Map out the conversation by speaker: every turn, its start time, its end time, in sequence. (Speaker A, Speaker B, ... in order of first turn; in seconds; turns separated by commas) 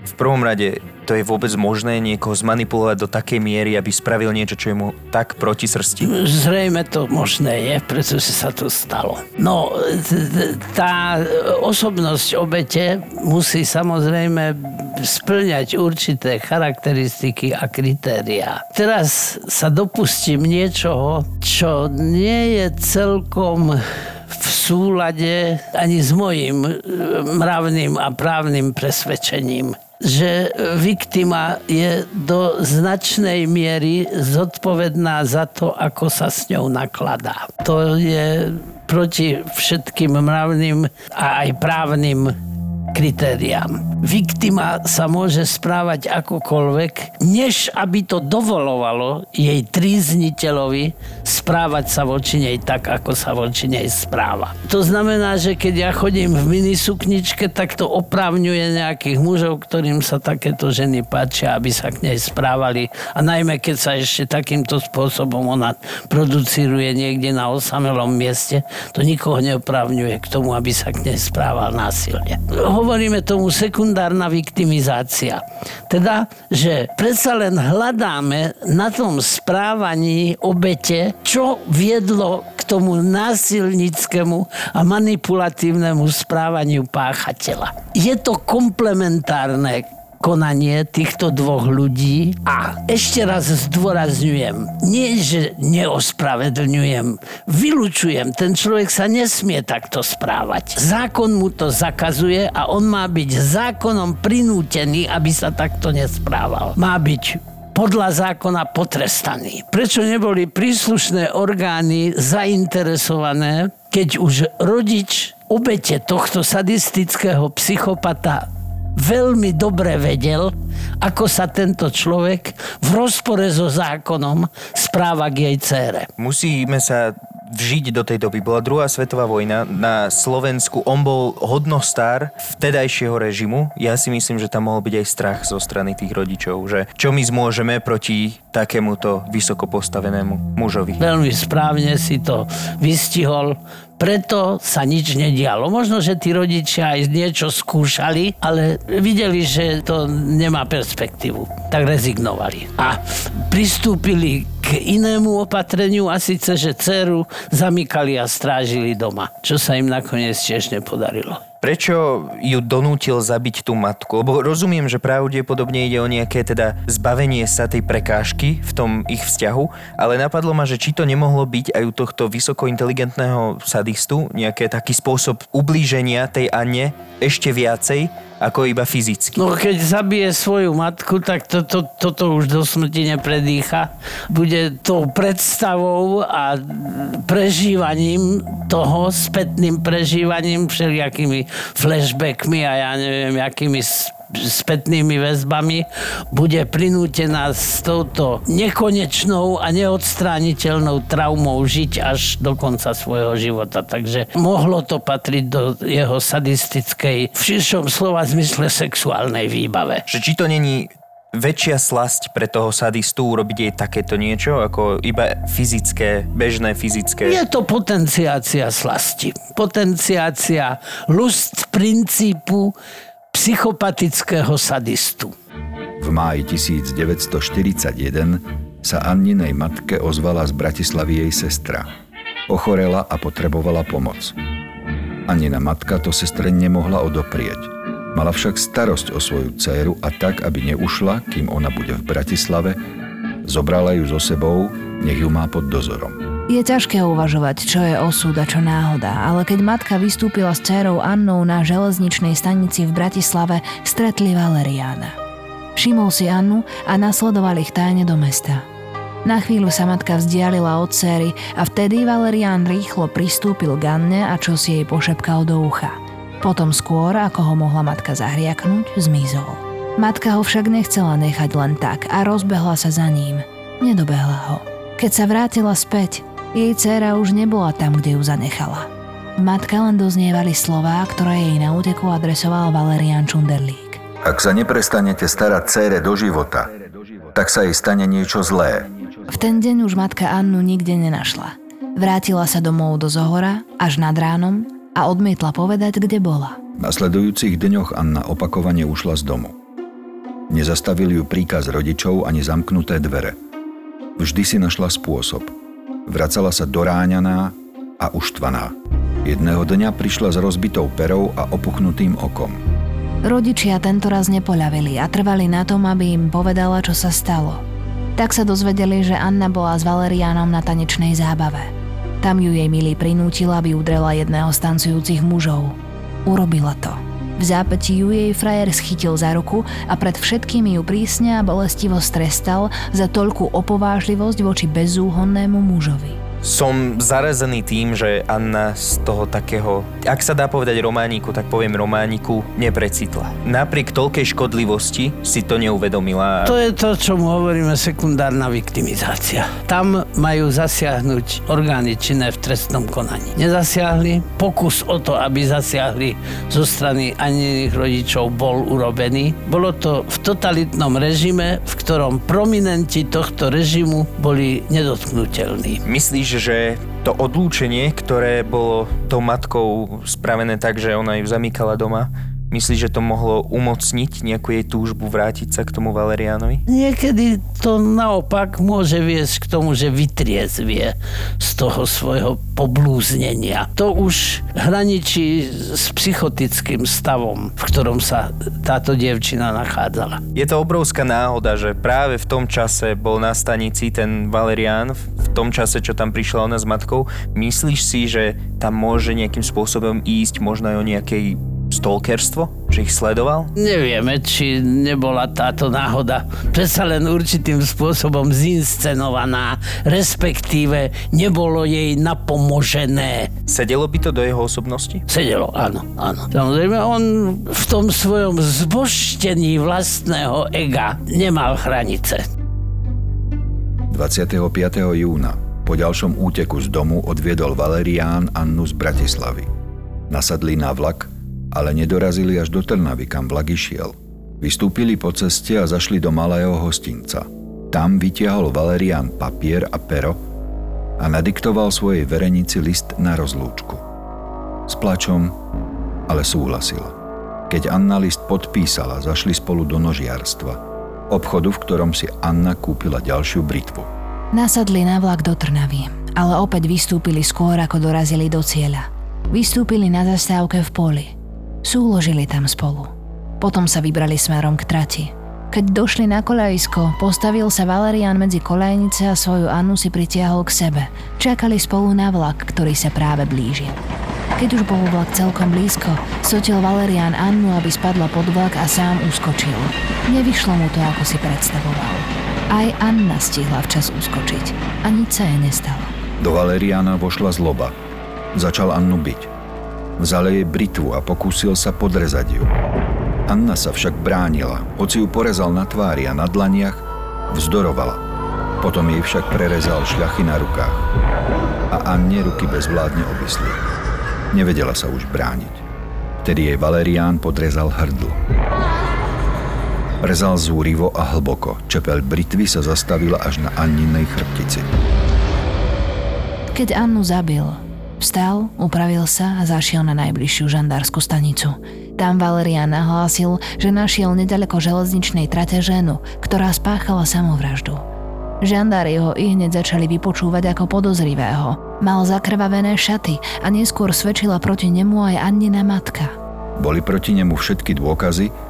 Speaker A: 0.1-6.1, Speaker B: 6.0-42.4, Speaker B: 42.9-126.1, Speaker A: 126.2-141.0, Speaker B: 141.0-161.4, Speaker A: 161.6-179.4, Speaker B: 179.4-210.0, Speaker A: 210.1-217.4, Speaker B: 217.2-222.7, Speaker B: 223.3-225.3, Speaker C: 226.0-231.9, Speaker C: 232.5-234.3, Speaker C: 235.3-242.8, Speaker C: 243.4-246.2, Speaker D: 246.5-255.2, Speaker D: 255.8-258.7, Speaker D: 259.2-284.0, Speaker C: 284.2-288.9, Speaker D: 289.3-296.6, Speaker C: 296.8-299.6, Speaker C: 300.5-303.4, Speaker C: 304.2-305.5, Speaker C: 306.1-312.6, Speaker D: 313.2-317.6, Speaker D: 318.2-336.2, Speaker A: 336.4-346.6, Speaker B: 346.4-365.8, Speaker A: 365.9-376.6, Speaker B: 376.7-390.2, Speaker A: 390.4-403.5, Speaker B: 403.6-413.3, Speaker A: 413.5-415.0, Speaker B: 415.1-422.2, Speaker C: 423.9-429.5, Speaker C: 430.1-440.2, Speaker C: 441.0-443.8, Speaker C: 444.7-445.4, Speaker C: 446.1-446.9, Speaker C: 447.5-453.9, Speaker D: 454.3-461.1, Speaker D: 461.6-473.8, Speaker D: 474.4-485.9, Speaker C: 486.2-487.7, Speaker C: 488.3-489.3, Speaker C: 490.0-492.5, Speaker C: 493.3-498.0, Speaker C: 498.6-500.9, Speaker C: 501.7-503.7, Speaker C: 504.3-505.6, Speaker C: 506.2-508.2, Speaker C: 510.0-514.7, Speaker D: 516.5-527.9, Speaker D: 528.4-536.1, Speaker C: 536.6-538.3